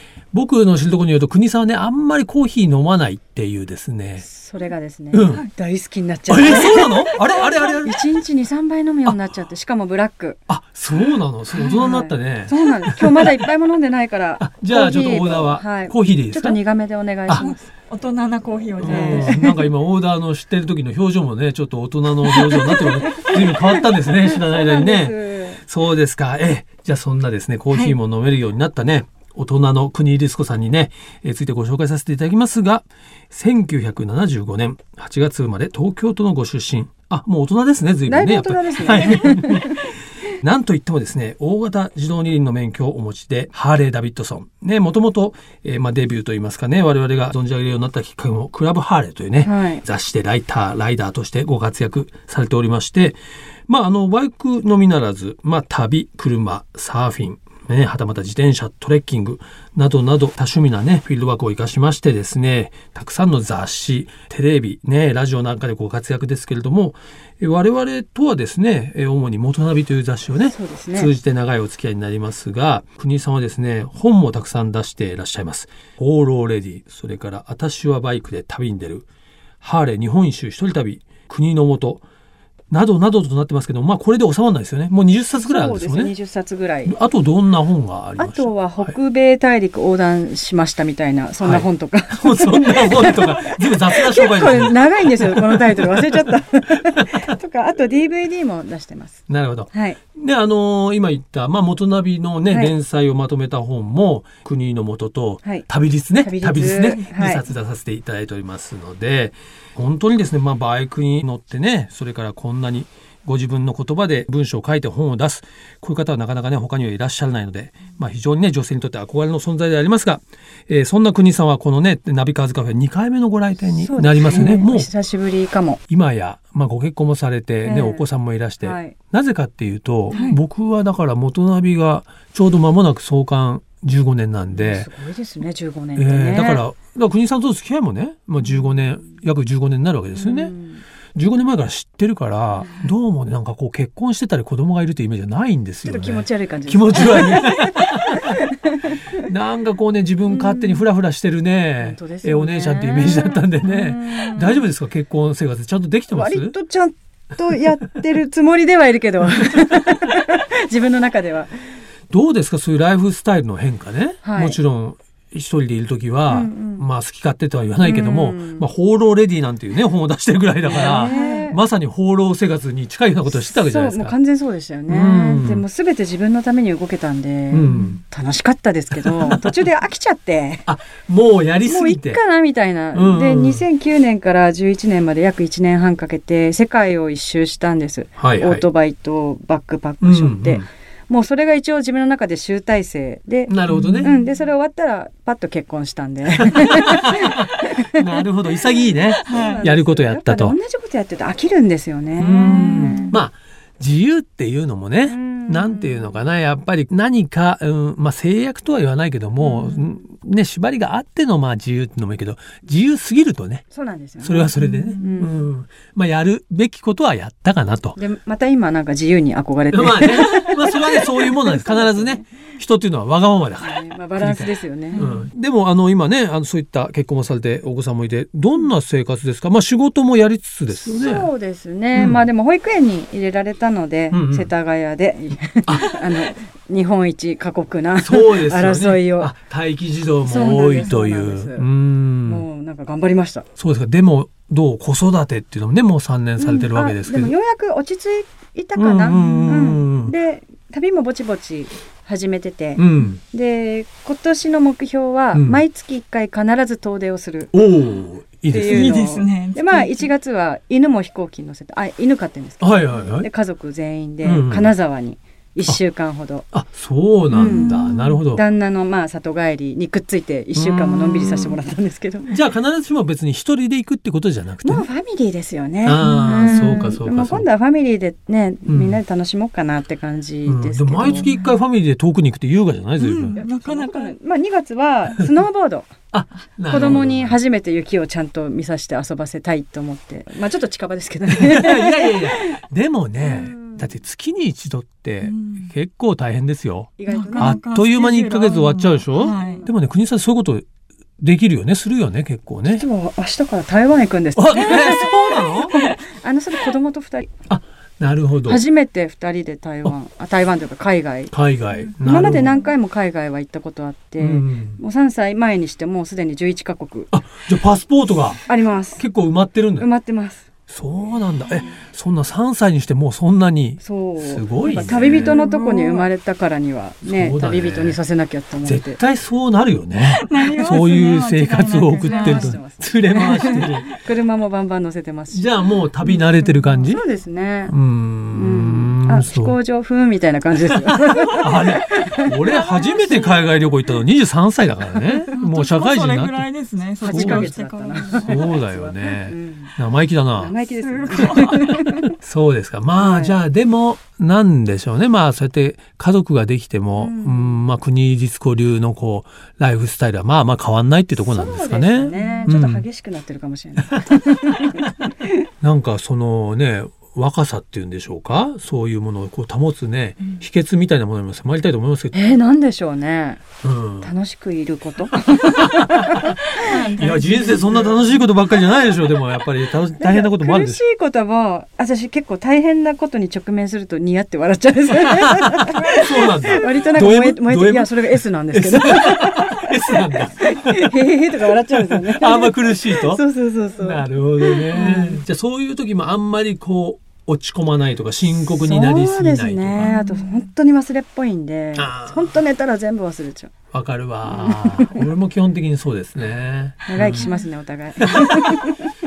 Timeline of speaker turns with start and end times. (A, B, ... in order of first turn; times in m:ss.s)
0:00.3-0:04.2 A
0:04.2-0:10.4 B
0:05.1-0:05.4 A
0:06.3-0:08.1 A
0:10.5-0:13.5 A
0:11.5-0:12.0 C
0:11.7-0:17.6 B
0:14.4-0:16.6 A
0:17.4-0:19.3 C
0:18.8-1:19.1 A
0:18.8-0:19.7 B
0:22.8-0:23.8 B
0:24.3-0:25.6 B
0:38.1-0:39.9 B
0:49.4-0:49.8 B
1:10.4-1:11.1 B
1:19.6-1:22.0 A
1:22.7-1:26.1 A
1:25.4-1:27.0 B
1:26.8-1:28.9 A
1:28.2-1:39.2 B
1:31.4-1:36.3 A
1:39.3-2:04.9 A
1:39.7-1:40.0 B
1:42.5-1:42.7 B
1:46.2-1:47.4 B
2:03.8-2:05.8 B
2:05.9-2:14.9 A
2:07.6-2:08.0 B
2:08.6-2:09.0 B
2:10.1-2:10.4 C
2:10.1-2:10.4 B
2:14.5-2:16.6 B
2:16.0-2:20.5 A
2:20.1-2:20.8 B
2:21.1-2:28.3 A
2:25.8-2:29.2 B
2:29.1-2:36.5 A
2:30.3-2:30.8 B
2:31.8-2:34.7 B
2:36.1-2:41.5 B
2:42.1-2:54.2 A
2:44.2-2:44.6 B
2:46.3-2:46.8 B
2:47.8-2:48.7 B
2:50.6-2:51.6 B
2:51.0-2:51.5 C
2:53.3-3:00.6 B
2:54.9-2:55.6 A
2:57.5-2:58.0 A
2:58.9-2:59.5 A
3:00.6-3:02.2 A
3:01.6-3:18.2 B
3:02.9-3:03.6 A
3:08.2-3:08.6 A
3:10.0-3:10.7 A
3:13.5-3:14.1 A
3:13.7-3:14.2 C
3:16.4-3:20.6 A
3:19.1-3:19.6 C
3:19.2-3:23.2 B
3:22.2-3:33.6 A
3:22.4-3:23.2 C
3:25.0-3:26.1 B
3:29.4-3:29.8 B
3:33.7-3:35.5 B
3:34.2-3:38.0 A
3:34.6-3:35.0 C
3:38.0-3:42.3 B
3:39.7-3:51.3 A
3:43.6-3:45.0 B
3:44.9-3:45.3 C
3:50.7-3:59.3 B
3:51.9-3:52.2 A
3:54.1-3:54.5 A
3:55.7-3:56.0 A
3:58.0-4:02.4 A
4:00.2-4:01.7 B
4:00.4-4:00.6 C
4:02.2-4:03.4 B
4:03.6-4:07.3 A
4:06.4-4:17.5 B
4:08.8-4:10.1 A
4:09.1-4:09.8 C
4:12.8-4:13.2 A
4:15.3-4:15.6 A
4:17.5-4:19.0 A
4:18.5-4:26.5 B
4:18.6-4:20.1 C
4:22.6-4:23.3 A
4:24.2-4:24.7 A
4:26.5-4:28.4 A
4:27.3-4:32.3 B
4:27.3-4:28.2 C
4:30.5-4:31.6 A
4:32.2-4:34.8 A
4:34.6-4:41.3 B
4:35.8-4:37.4 A
4:36.0-4:36.9 C
4:38.7-4:39.0 A
4:40.4-4:43.4 A
4:43.0-4:44.1 C
4:43.3-4:45.9 B
4:46.1-4:47.4 A
4:46.6-4:52.6 B
4:51.3-5:00.7 A
4:53.2-4:53.9 B
4:55.2-4:55.7 C
4:57.0-4:57.6 B
4:57.1-4:59.7 C
4:59.3-4:59.6 B
5:01.2-5:02.8 A
5:02.6-5:07.3 B
5:04.3-5:05.8 A
5:04.5-5:06.0 C
5:07.5-5:08.6 A
5:08.4-5:11.3 B
5:11.3-5:12.6 A
5:12.0-5:17.1 B
5:14.2-5:14.8 A
5:17.1-5:18.4 A
5:18.4-5:19.0 B
5:19.0-5:19.9 A
5:19.8-5:20.4 B
5:20.7-5:25.4 A
5:23.8-5:29.0 B
5:24.6-5:26.1 C
5:27.0-5:28.0 A
5:28.6-5:33.9 A
5:30.0-5:32.6 C
5:32.0-5:35.5 B
5:33.2-5:33.7 C
5:35.3-5:37.0 A
5:36.0-5:37.7 B
5:37.7-5:39.6 A
5:38.3-5:42.4 B
5:41.4-5:46.4 A
5:42.4-5:43.4 C
5:45.3-5:48.5 C
5:47.0-5:49.7 B
5:47.1-5:47.5 A
5:48.1-5:50.5 A
5:50.4-5:52.1 B
5:50.7-5:51.8 C
5:51.1-6:02.8 A
5:53.0-5:53.4 B
5:57.0-5:57.6 B
6:01.2-6:05.5 B
6:02.1-6:02.5 C
6:05.6-6:12.4 A
6:12.1-6:13.4 B
6:13.6-6:14.1 A
6:14.0-6:18.0 B
6:15.3-6:20.8 A
6:16.6-6:17.6 C
6:20.0-6:35.2 B
6:25.0-6:31.1 A
6:31.7-6:33.2 A
6:33.8-6:39.9 A
6:38.4-6:43.5 B
6:39.8-6:40.4 C
6:41.7-6:42.4 A
6:43.7-6:47.3 A
6:44.3-6:45.0 B
6:46.8-6:48.9 B
6:47.1-6:47.4 C
6:48.0-6:48.6 A